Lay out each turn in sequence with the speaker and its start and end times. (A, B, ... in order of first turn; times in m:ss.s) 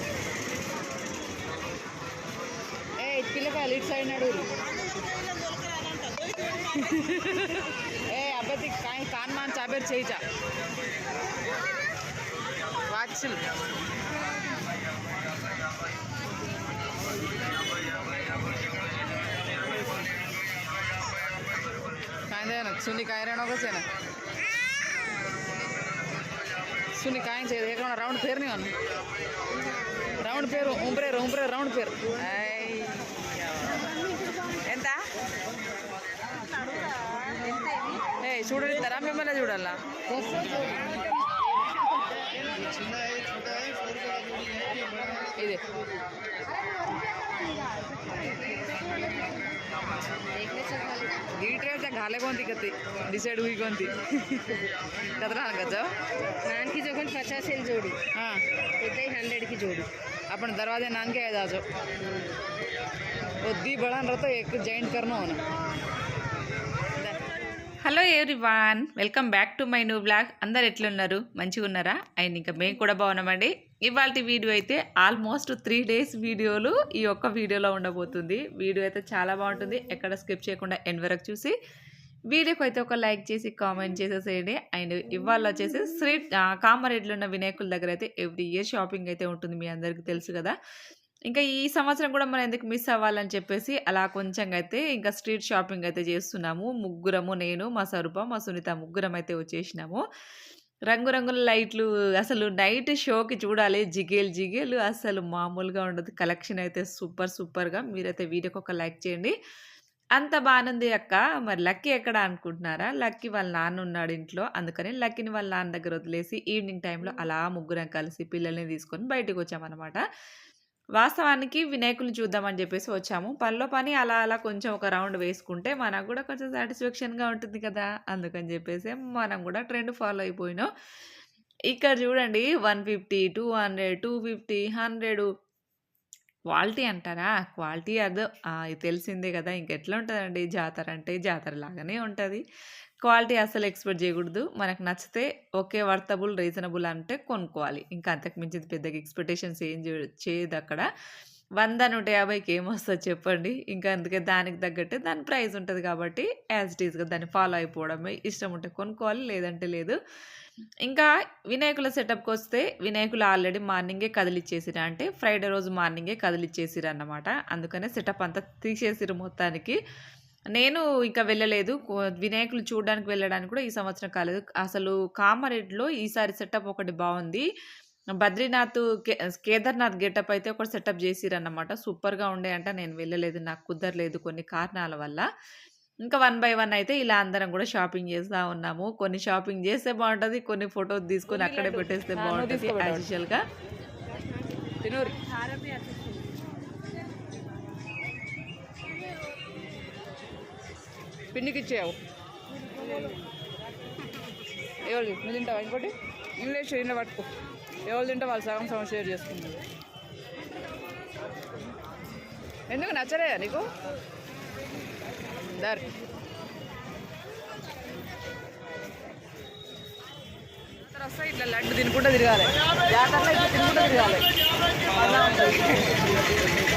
0:03.0-0:04.5 A
0:06.7-0:10.2 A
0:12.9-0:13.4 A
0:22.3-0:23.8 A
0:27.0-0:28.7 A
0:30.2-0:33.1 A
0:34.7-0:35.0 A
0:38.2-0:41.0 A
0:46.5-0:49.4 B
0:50.3-0:51.2 B
0:51.4-0:55.9 A
0:56.4-0:58.0 B
0:58.2-0:58.4 A
0:58.8-0:59.9 B
1:00.3-1:01.6 A
1:03.4-1:05.4 A
1:07.8-1:21.6 C
1:22.3-1:30.6 C
1:31.3-1:40.0 C
1:40.9-1:49.3 C
1:50.2-2:00.0 C
2:01.0-2:10.7 C
2:11.7-2:15.3 C
2:16.5-2:22.4 C
2:23.0-2:30.9 C
2:31.6-2:40.0 C
2:40.8-2:49.8 C
2:50.6-2:57.4 C
2:58.2-3:05.3 C
3:06.1-3:13.4 C
3:11.4-3:13.0 A
3:14.8-3:15.2 A
3:21.3-3:22.0 A
3:24.8-3:27.3 A
3:27.9-3:29.6 A
3:32.7-3:33.7 A
3:35.5-3:35.9 A
3:40.9-3:44.3 A
3:44.9-3:46.0 A